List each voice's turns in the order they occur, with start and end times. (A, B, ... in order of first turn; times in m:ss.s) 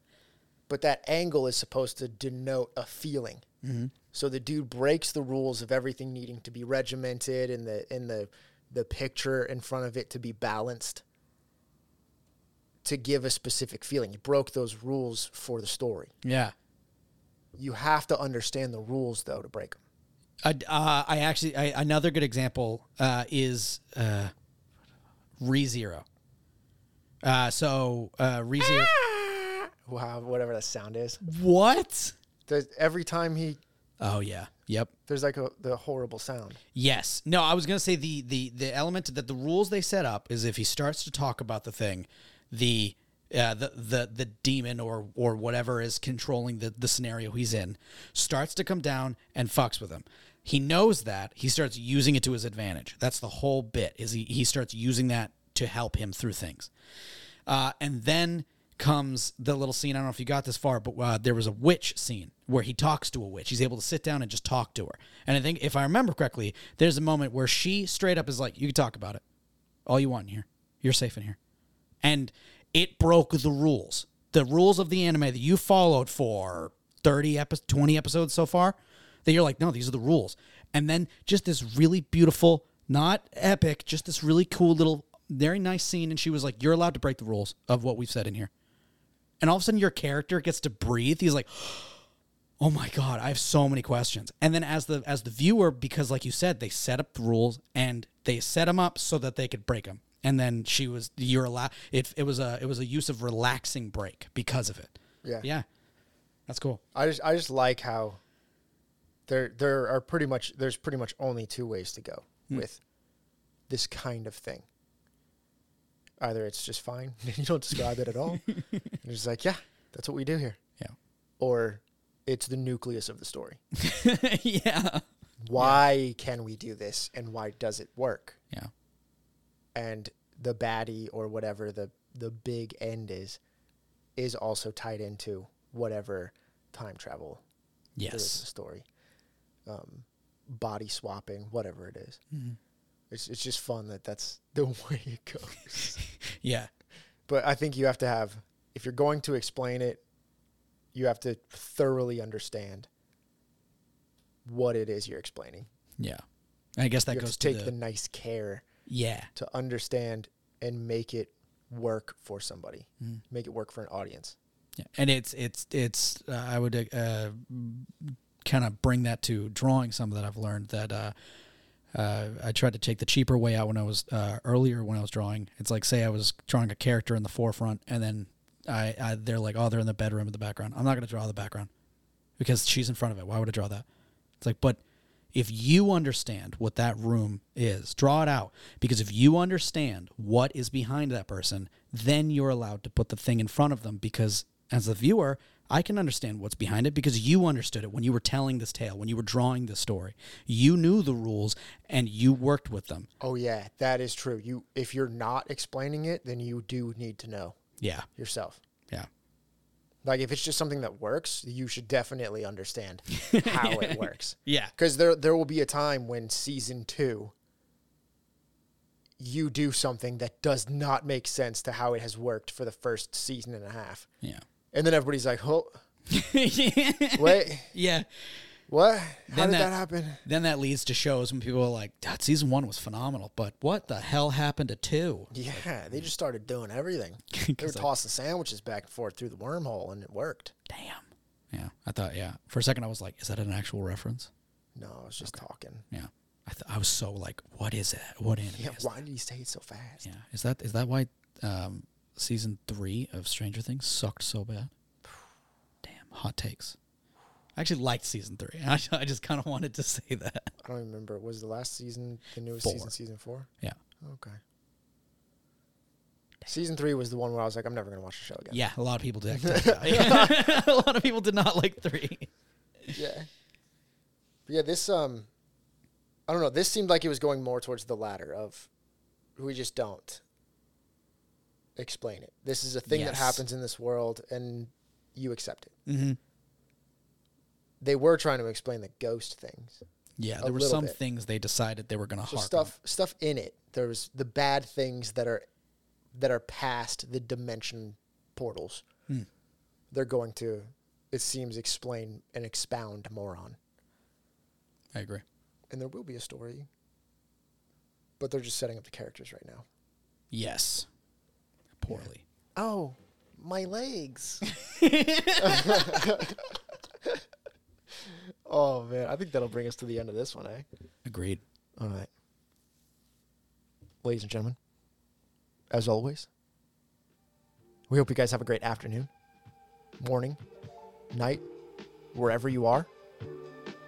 0:00.7-0:03.4 A
0:03.6-0:03.9 B
0:04.1-0:11.0 A
0:12.8-0:16.1 A
0:16.2-0:16.5 B
0:17.6-0:19.8 A
0:20.4-0:24.3 B
0:25.4-0:26.0 B
0:27.2-0:28.9 B
0:28.7-0:31.2 A
0:31.2-0:32.1 B
0:32.5-0:33.6 A
0:34.0-0:34.9 B
0:35.1-0:36.6 A
0:36.7-0:56.7 B
0:57.5-1:09.2 B
1:09.8-1:11.4 B
1:12.0-1:28.5 B
1:29.4-1:32.0 B
1:32.6-1:45.6 B
1:46.5-1:46.8 B
1:46.9-1:48.2 A
1:49.3-1:52.8 A
1:53.7-1:54.6 A
1:56.2-1:58.5 A
1:58.3-1:58.9 B
1:59.0-2:00.6 A
2:01.4-2:03.6 A
2:03.7-2:05.0 B
2:05.4-2:08.4 A
2:05.6-2:05.8 B
2:09.7-2:13.4 A
2:14.2-2:17.4 A
2:18.0-2:18.4 B
2:18.1-2:18.8 A
2:19.7-2:22.2 A
2:22.3-2:22.6 B
2:23.1-2:26.0 A
2:26.2-2:26.7 B
2:27.3-2:30.0 A
2:30.9-2:32.9 A
2:34.4-2:35.7 A
2:36.0-2:36.2 B
2:36.8-2:37.7 B
2:37.1-2:38.6 A
2:38.9-2:39.3 B
2:39.3-2:44.4 A
2:44.8-2:51.1 B
2:51.9-3:01.7 B
3:02.4-3:03.8 B
3:04.4-3:04.8 B
3:05.3-3:23.1 B
3:23.2-3:27.6 A
3:27.8-3:28.1 B
3:28.1-3:28.6 A
3:30.0-3:37.3 A
3:33.1-3:34.7 B
3:39.2-3:44.1 A
3:44.7-3:45.8 A
3:46.1-3:48.0 B
3:47.2-3:47.7 A
3:48.7-3:50.2 A
3:49.3-3:56.1 B
3:55.3-4:00.5 A
3:57.3-3:57.9 B
4:00.7-4:04.3 B
4:04.8-4:05.8 A
4:05.9-4:08.9 B
4:08.6-4:10.0 A
4:10.0-4:14.7 B
4:15.8-4:16.8 B
4:17.6-4:20.5 B
4:20.6-4:23.5 A
4:22.6-4:22.9 B
4:24.0-4:24.4 A
4:26.4-4:28.6 A
4:28.5-4:32.3 B
4:29.3-4:30.6 A
4:32.9-4:33.3 A
4:34.5-4:35.3 A
4:36.3-4:38.7 A
4:39.4-4:40.2 A
4:41.8-4:45.8 A
4:42.9-4:43.4 B
4:45.9-4:46.2 B
4:47.8-4:49.8 A
4:50.2-4:52.7 B
4:50.4-4:51.0 A
4:52.3-4:55.4 A
4:56.1-4:58.8 A
4:59.9-5:03.6 A
5:04.9-5:05.2 B
5:05.7-5:06.7 A
5:08.2-5:09.6 A
5:10.3-5:10.9 B
5:11.8-5:12.2 B
5:11.9-5:14.4 A
5:14.5-5:16.2 B
5:15.4-5:16.5 A
5:18.1-5:20.6 A
5:21.0-5:21.4 B
5:21.8-5:22.1 A
5:24.0-5:24.6 A
5:25.7-5:26.3 A
5:27.9-5:29.1 A
5:30.0-5:30.4 A
5:31.1-5:31.4 A
5:32.1-5:32.9 A